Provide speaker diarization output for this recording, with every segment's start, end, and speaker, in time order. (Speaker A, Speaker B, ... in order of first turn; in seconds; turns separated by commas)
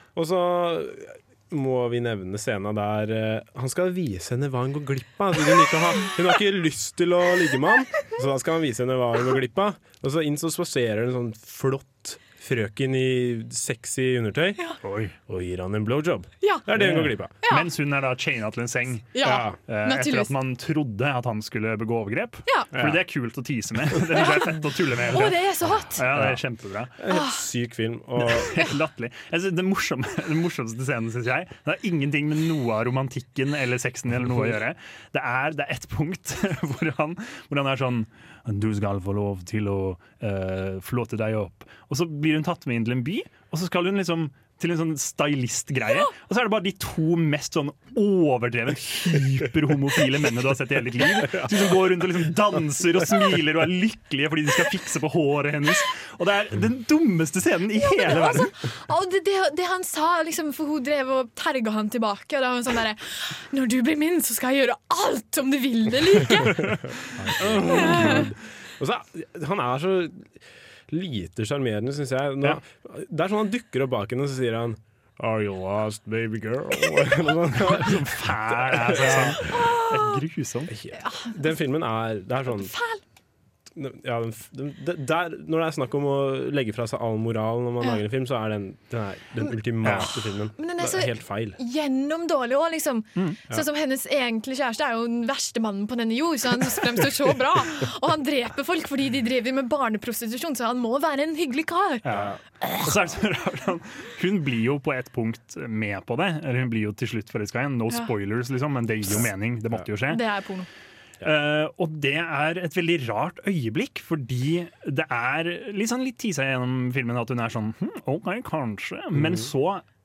Speaker A: 0.1-14.6, Speaker B: 14.8-15.2, Speaker A: 15.3-17.3, Speaker C: 16.4-16.7, Speaker B: 16.8-26.9, Speaker C: 17.4-17.7, Speaker C: 19.1-20.3, Speaker A: 19.2-19.6, Speaker A: 22.7-23.0, Speaker C: 24.1-24.5, Speaker C: 25.1-26.1, Speaker A: 26.1-26.4, Speaker A: 27.0-28.6, Speaker C: 27.1-27.4, Speaker B: 28.3-58.5, Speaker C: 57.8-66.8, Speaker A: 66.7-79.4, Speaker B: 67.5-68.2, Speaker C: 67.7-68.3, Speaker B: 77.5-80.7, Speaker C: 79.5-80.2, Speaker A: 80.7-82.7, Speaker C: 81.0-81.4, Speaker C: 82.5-83.0, Speaker A: 83.8-91.6, Speaker B: 89.8-90.1, Speaker C: 89.9-102.0, Speaker B: 102.0-110.2, Speaker C: 110.1-110.7, Speaker B: 111.2-119.8, Speaker A: 119.2-119.4